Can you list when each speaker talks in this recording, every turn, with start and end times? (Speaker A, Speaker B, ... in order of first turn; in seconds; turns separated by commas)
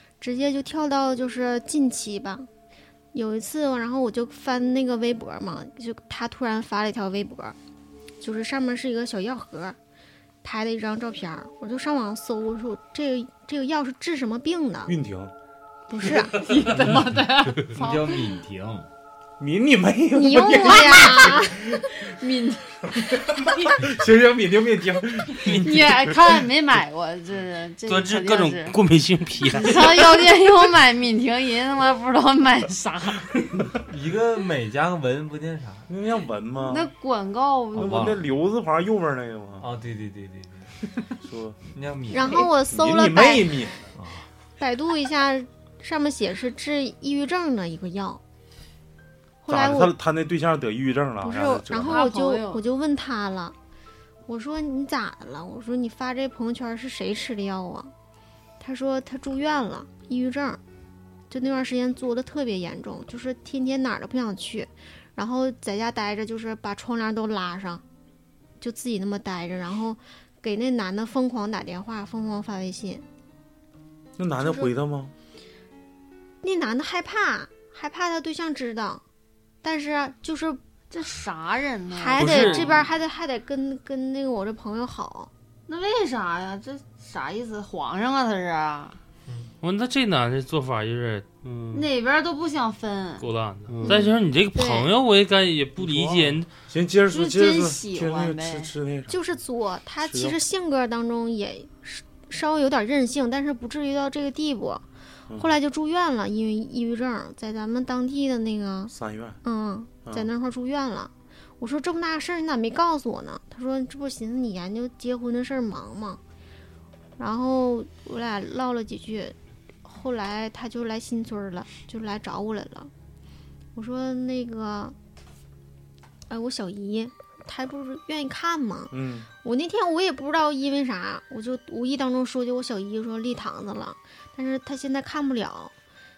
Speaker A: 0.2-2.5, Speaker A: 3.1-7.6, Speaker A: 8.2-9.8, Speaker A: 10.4-15.0, Speaker B: 14.9-15.3, Speaker A: 15.9-16.4, Speaker C: 16.0-18.3, Speaker D: 17.7-18.9, Speaker B: 19.4-21.8, Speaker A: 20.1-21.8, Speaker C: 21.9-23.7, Speaker B: 23.0-26.0, Speaker C: 25.4-28.8, Speaker E: 27.9-30.0, Speaker C: 29.5-33.3, Speaker D: 33.9-35.9, Speaker B: 35.9-36.9, Speaker C: 36.6-38.2, Speaker D: 37.8-38.3, Speaker B: 37.8-39.7, Speaker D: 39.6-40.7, Speaker B: 41.2-41.6, Speaker D: 41.7-42.4, Speaker A: 42.1-43.7, Speaker B: 42.7-43.9, Speaker D: 44.0-44.3, Speaker A: 44.6-48.2, Speaker A: 49.4-50.0, Speaker B: 49.5-52.0, Speaker A: 51.2-53.6, Speaker C: 51.7-52.6, Speaker A: 54.3-57.9, Speaker A: 58.6-60.6, Speaker A: 61.3-67.8, Speaker A: 68.6-73.1, Speaker B: 74.2-75.1, Speaker A: 74.4-74.7, Speaker A: 76.4-79.0, Speaker A: 79.6-80.6, Speaker C: 80.9-82.9, Speaker A: 81.9-85.3, Speaker E: 82.2-82.7, Speaker C: 85.7-89.0, Speaker E: 89.6-91.8, Speaker C: 91.7-93.2, Speaker E: 93.2-96.5, Speaker A: 93.9-94.9, Speaker B: 95.8-99.2, Speaker C: 97.1-98.7, Speaker A: 99.1-116.2, Speaker B: 100.0-100.4, Speaker B: 108.9-109.4, Speaker A: 117.2-122.9, Speaker A: 123.7-125.0, Speaker A: 126.3-135.8, Speaker B: 128.9-129.3